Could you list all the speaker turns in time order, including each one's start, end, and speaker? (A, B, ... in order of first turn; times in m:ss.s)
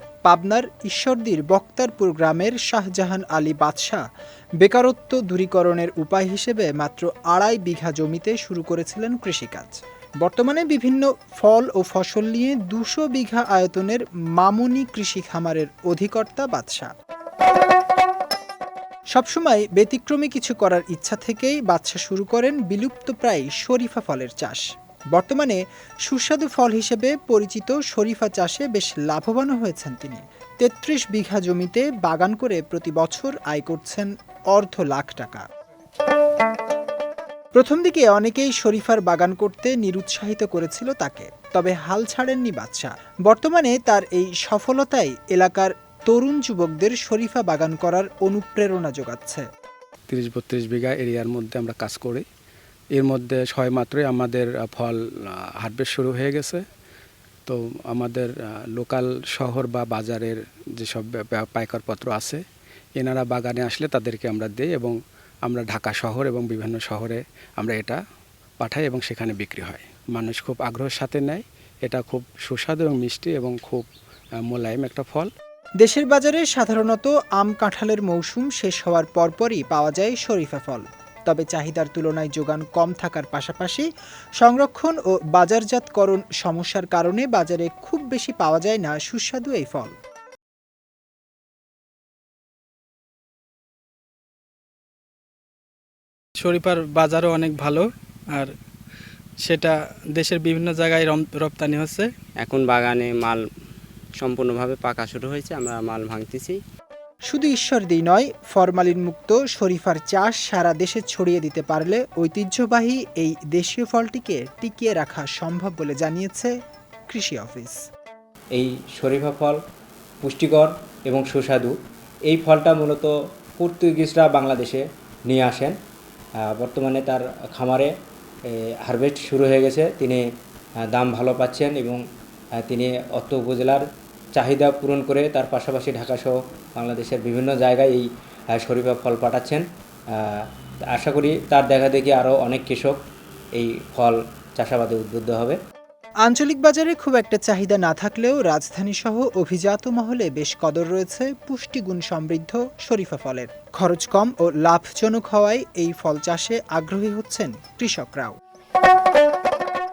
0:00.2-0:04.0 A
0:04.6-0:16.9 A
0:19.1-0:35.4 A
0:37.5-0:49.4 A
0:50.1-0:52.2 B
0:53.0-0:56.6 B
0:57.4-1:02.4 B
1:03.0-1:04.9 B
1:05.4-1:08.0 B
1:08.6-1:13.9 B
1:14.4-1:15.3 B
1:15.8-1:23.9 A
1:24.4-1:30.0 A
1:36.4-1:38.5 C
1:39.4-1:42.1 C
1:42.4-1:43.4 D
1:44.2-1:46.6 D
1:45.3-1:45.8 E
1:47.3-1:56.5 A
1:57.1-1:57.8 A
1:58.5-1:59.6 E
2:00.2-2:01.7 E
2:02.3-2:05.8 E
2:06.4-2:07.9 E
2:08.5-2:10.2 E
2:10.8-2:12.0 E
2:12.6-2:13.8 E
2:14.4-2:23.0 E
2:23.6-2:25.6 E
2:26.2-2:38.4 A